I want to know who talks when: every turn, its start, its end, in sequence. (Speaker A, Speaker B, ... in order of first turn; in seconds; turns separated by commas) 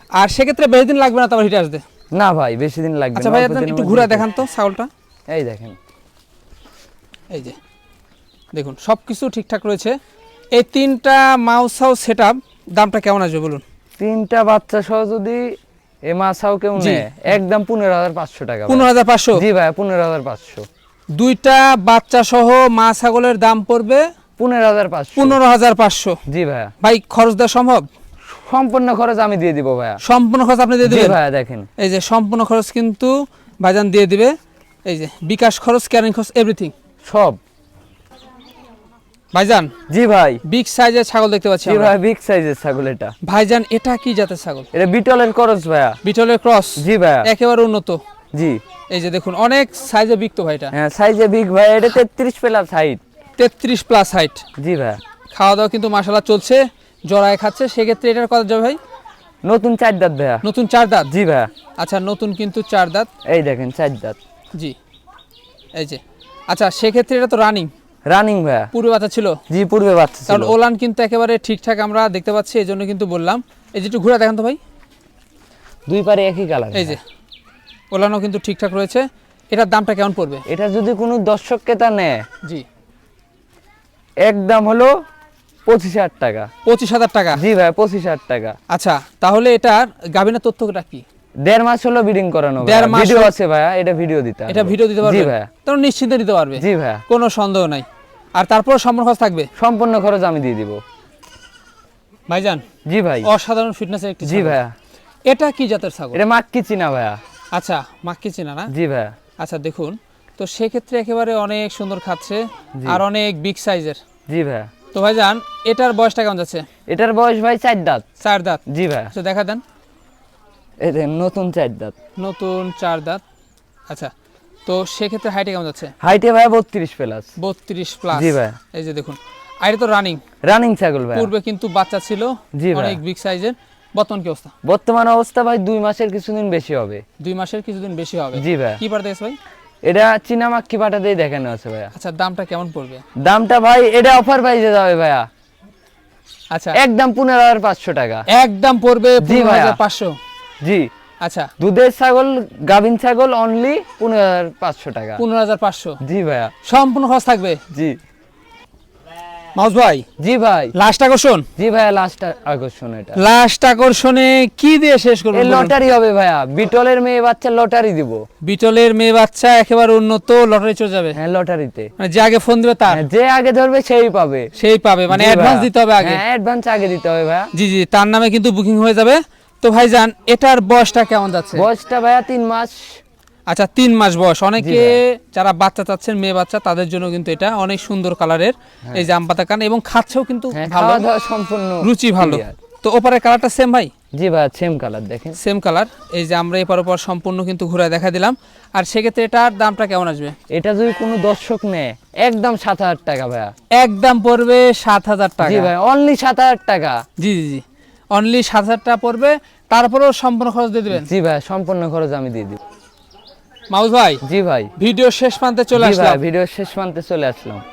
Speaker A: 0.2-1.8, Speaker B: 2.1-4.2, Speaker A: 3.1-4.9, Speaker B: 5.3-5.8, Speaker A: 7.3-7.6, Speaker A: 8.5-10.0, Speaker A: 10.5-13.6, Speaker B: 14.0-15.5, Speaker B: 16.1-20.6, Speaker A: 16.8-17.3, Speaker A: 18.7-19.4, Speaker A: 21.1-24.1, Speaker B: 24.4-25.4, Speaker A: 25.1-26.2, Speaker B: 26.3-26.7, Speaker A: 26.8-27.9, Speaker B: 28.3-30.0, Speaker A: 30.0-31.2, Speaker B: 30.8-31.7, Speaker A: 31.8-34.3, Speaker A: 34.9-36.7, Speaker B: 37.0-37.4, Speaker A: 39.3-39.7, Speaker B: 39.9-40.4, Speaker A: 40.5-41.9, Speaker B: 41.6-43.1, Speaker A: 43.2-44.7, Speaker B: 44.7-46.0, Speaker A: 46.0-48.0, Speaker B: 46.8-47.3, Speaker B: 48.3-48.6, Speaker A: 48.9-50.7, Speaker B: 50.7-53.0, Speaker A: 53.4-54.4, Speaker B: 54.6-55.0, Speaker A: 55.3-58.8, Speaker B: 59.5-60.4, Speaker A: 60.4-61.1, Speaker B: 61.1-61.5, Speaker A: 61.8-63.1, Speaker B: 63.3-64.2, Speaker A: 65.7-67.7, Speaker B: 68.1-68.7, Speaker A: 68.7-69.4, Speaker B: 69.5-70.5, Speaker A: 70.3-74.6, Speaker B: 75.9-77.0, Speaker A: 76.7-77.0, Speaker A: 77.9-80.4, Speaker B: 80.5-82.2, Speaker B: 84.2-84.9, Speaker B: 85.7-86.5, Speaker A: 86.6-87.4, Speaker B: 87.3-88.5, Speaker A: 88.7-91.0, Speaker B: 91.4-95.5, Speaker A: 92.6-93.3, Speaker A: 94.5-99.5, Speaker B: 96.6-97.0, Speaker B: 99.5-100.8, Speaker A: 102.3-102.6, Speaker B: 102.9-103.3, Speaker A: 103.2-104.6, Speaker B: 104.2-104.7, Speaker A: 105.2-106.2, Speaker B: 106.1-107.2, Speaker A: 107.5-108.7, Speaker B: 108.7-109.1, Speaker A: 109.4-114.0, Speaker B: 112.8-113.0, Speaker B: 114.3-114.7, Speaker A: 114.9-116.6, Speaker B: 116.9-118.0, Speaker A: 118.2-119.6, Speaker B: 118.7-119.1, Speaker B: 120.8-121.9, Speaker A: 122.2-123.2, Speaker A: 124.7-125.9, Speaker B: 126.0-127.3, Speaker A: 127.4-130.2, Speaker B: 128.1-128.6, Speaker B: 130.5-131.3, Speaker A: 131.1-134.5, Speaker B: 132.6-133.0, Speaker B: 134.6-137.0, Speaker A: 137.2-139.4, Speaker B: 138.3-138.8, Speaker B: 139.8-141.9, Speaker A: 141.9-143.0, Speaker B: 143.2-145.3, Speaker A: 146.5-146.8, Speaker B: 146.7-148.3, Speaker A: 148.3-150.2, Speaker B: 149.2-149.8, Speaker B: 150.6-150.9, Speaker A: 151.2-151.5, Speaker B: 151.6-155.2, Speaker A: 155.2-156.0, Speaker B: 156.0-156.5, Speaker A: 156.6-157.6, Speaker B: 157.7-158.0, Speaker A: 159.6-160.0, Speaker B: 160.2-160.7, Speaker A: 160.7-161.5, Speaker B: 161.6-163.2, Speaker A: 163.2-165.7, Speaker B: 165.3-168.2, Speaker A: 168.4-171.2, Speaker B: 171.1-171.9, Speaker A: 172.0-173.0, Speaker B: 172.9-174.5, Speaker A: 174.5-176.2, Speaker B: 175.1-177.5, Speaker A: 177.5-181.7, Speaker B: 181.5-183.0, Speaker A: 183.5-191.1, Speaker B: 184.6-185.0, Speaker B: 190.5-192.5, Speaker A: 191.8-193.9, Speaker B: 194.2-195.4, Speaker A: 195.4-200.3, Speaker B: 200.5-203.5, Speaker A: 203.7-205.7, Speaker B: 205.4-207.0, Speaker A: 207.2-211.1, Speaker B: 210.9-212.6, Speaker A: 213.7-214.2, Speaker B: 214.2-214.7, Speaker A: 214.8-216.2, Speaker B: 215.8-217.6